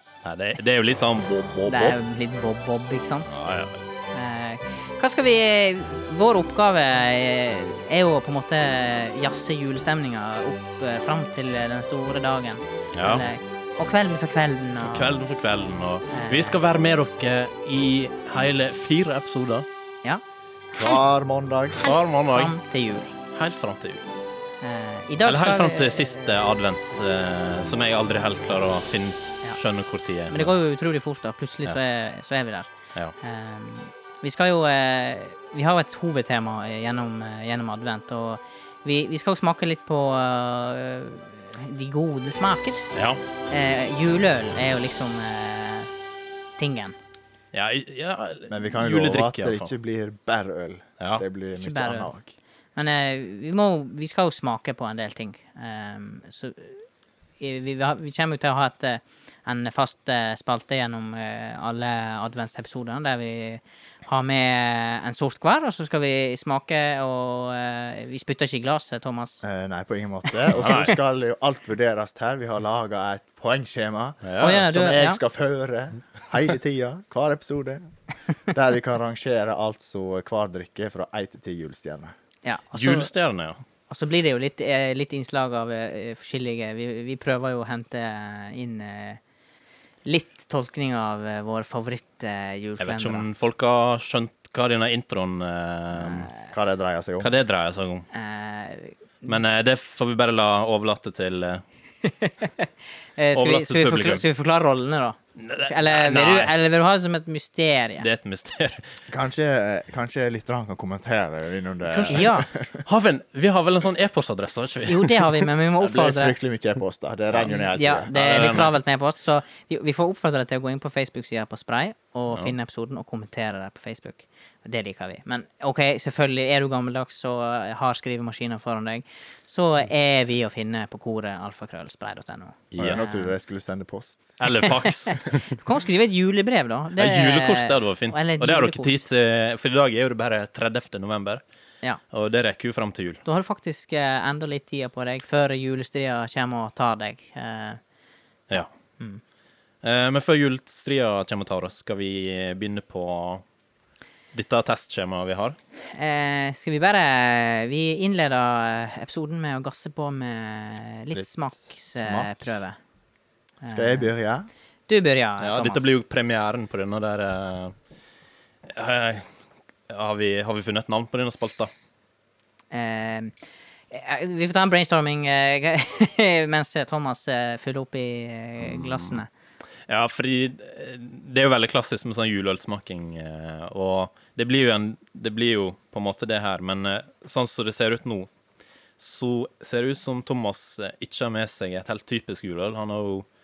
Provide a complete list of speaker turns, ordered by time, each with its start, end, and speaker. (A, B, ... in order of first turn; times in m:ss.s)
0:00.2-0:02.0 A
0:01.7-0:03.3 B
0:03.3-0:03.8 A
0:04.1-0:15.1 B
0:12.9-0:13.2 A
0:14.8-0:19.7 A
0:16.1-0:16.6 B
0:20.8-0:21.9 C
0:21.8-0:22.5 A
0:22.3-0:23.1 B
0:23.3-0:24.0 A
0:24.6-0:26.3 B
0:25.2-0:30.5 A
0:30.3-0:42.9 B
0:42.9-0:43.2 A
0:43.5-0:45.9 B
0:46.6-0:47.0 B
0:47.5-0:49.7 A
0:48.5-0:52.3 C
0:51.6-0:52.1 B
0:52.8-0:56.8 B
0:57.4-1:09.4 B
1:09.4-1:17.9 C
1:10.5-1:11.0 A
1:14.2-1:14.6 A
1:14.4-1:15.2 B
1:18.5-1:22.1 C
1:22.4-1:23.1 B
1:22.7-1:23.6 A
1:23.9-1:29.2 B
1:30.0-1:33.2 B
1:32.8-1:36.3 A
1:35.9-1:36.3 B
1:36.5-1:37.3 C
1:37.2-1:38.1 A
1:38.1-1:39.4 B
1:39.2-1:41.6 A
1:42.0-1:48.1 B
1:43.3-1:44.2 A
1:45.4-1:46.5 A
1:48.0-1:48.8 A
1:49.1-1:52.8 C
1:51.9-1:52.5 B
1:52.8-1:55.4 A
1:54.9-1:56.4 B
1:55.8-1:58.1 C
1:57.3-1:58.7 A
1:57.7-2:13.3 B
2:12.7-2:14.4 C
2:12.7-2:13.0 A
2:14.4-2:15.5 A
2:14.6-2:19.0 B
2:17.0-2:21.4 A
2:22.1-2:23.2 A
2:23.2-2:27.8 B
2:28.6-2:29.2 B
2:29.8-2:33.4 A
2:34.3-2:35.6 A
2:35.9-2:42.8 B
2:41.9-2:42.6 C
2:43.6-2:44.1 B
2:43.7-2:44.5 C
2:44.9-2:45.9 B
2:45.4-2:47.7 A
2:48.6-2:49.3 A
2:49.9-2:51.7 A
2:52.7-2:53.3 B
2:53.9-2:59.3 B
2:58.6-2:59.2 A
2:59.9-3:08.3 A
3:09.0-3:13.2 A